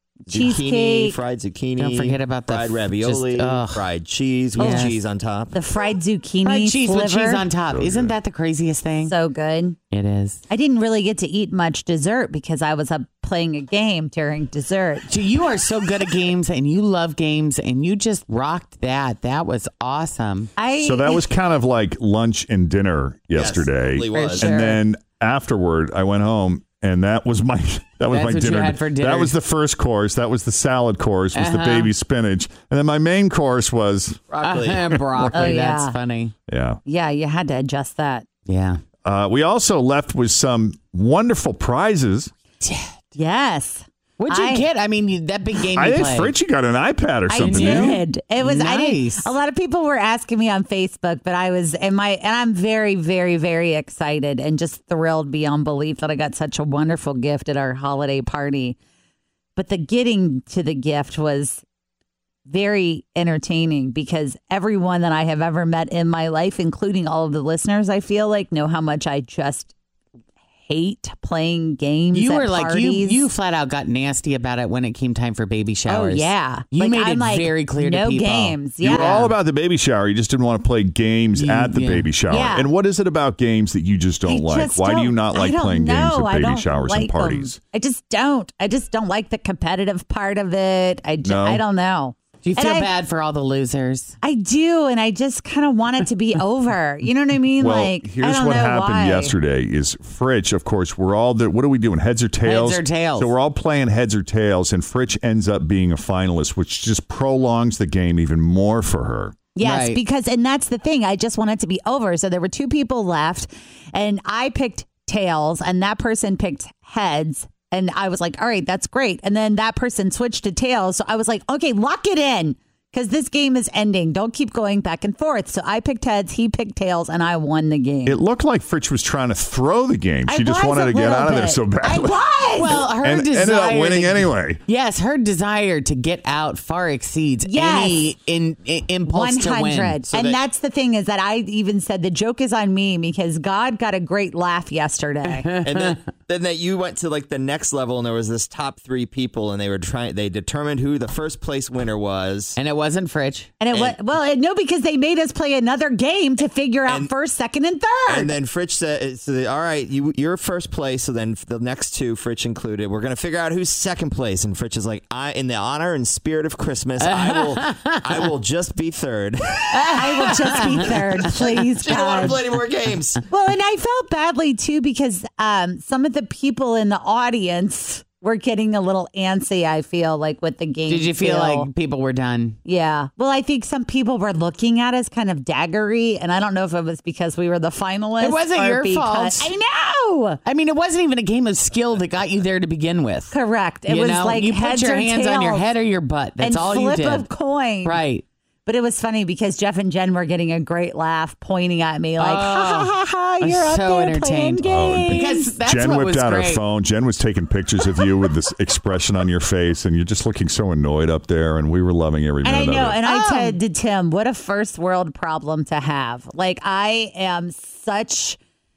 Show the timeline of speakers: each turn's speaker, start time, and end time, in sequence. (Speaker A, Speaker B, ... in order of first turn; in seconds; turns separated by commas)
Speaker A: 0.3-1.2, Speaker B: 0.3-5.5, Speaker C: 1.8-3.8, Speaker C: 4.5-4.9, Speaker A: 4.6-4.9, Speaker A: 5.5-7.4, Speaker C: 6.4-9.1, Speaker D: 7.7-8.2, Speaker A: 9.0-9.8, Speaker C: 9.9-10.4, Speaker A: 10.5-15.1, Speaker C: 15.1-20.5, Speaker A: 20.6-21.3, Speaker D: 20.8-34.2, Speaker B: 23.3-24.6, Speaker A: 24.1-24.8, Speaker C: 28.1-29.3, Speaker C: 31.3-31.9, Speaker B: 34.3-35.0, Speaker C: 34.4-36.3, Speaker A: 35.3-35.9, Speaker D: 36.5-36.8, Speaker A: 36.9-38.2, Speaker C: 38.5-38.8, Speaker D: 39.0-42.3, Speaker C: 42.6-42.9, Speaker A: 43.1-44.6, Speaker C: 44.2-46.3, Speaker D: 45.7-48.0, Speaker A: 47.3-58.8, Speaker C: 47.4-49.3, Speaker A: 59.5-61.6, Speaker A: 62.5-69.7, Speaker A: 70.7-73.2, Speaker C: 72.1-78.6, Speaker A: 75.9-79.3, Speaker D: 78.8-87.6, Speaker C: 81.3-82.1, Speaker A: 82.3-82.7, Speaker A: 84.2-92.9, Speaker D: 91.2-91.6, Speaker C: 92.4-94.2, Speaker A: 94.2-99.3, Speaker D: 97.6-109.4, Speaker C: 102.4-103.3, Speaker A: 109.5-128.2, Speaker C: 109.6-110.0, Speaker D: 128.1-132.2, Speaker A: 130.2-132.8, Speaker C: 132.5-140.0, Speaker D: 132.9-134.6, Speaker A: 137.4-138.1, Speaker A: 139.1-145.5, Speaker B: 140.1-140.4, Speaker C: 145.3-145.9, Speaker B: 145.6-152.6, Speaker C: 152.6-153.5, Speaker A: 153.6-158.3, Speaker B: 158.1-173.2, Speaker C: 167.1-167.9, Speaker C: 169.7-170.9, Speaker A: 169.9-172.6, Speaker A: 173.3-181.7, Speaker C: 180.9-182.6, Speaker A: 182.6-190.4, Speaker C: 188.2-189.5, Speaker C: 190.4-193.3, Speaker A: 193.3-195.7, Speaker C: 193.9-197.3, Speaker A: 196.4-198.0, Speaker C: 197.8-198.2, Speaker A: 198.7-205.5, Speaker C: 202.2-206.6, Speaker D: 204.6-213.2, Speaker A: 212.4-218.4, Speaker C: 213.1-213.5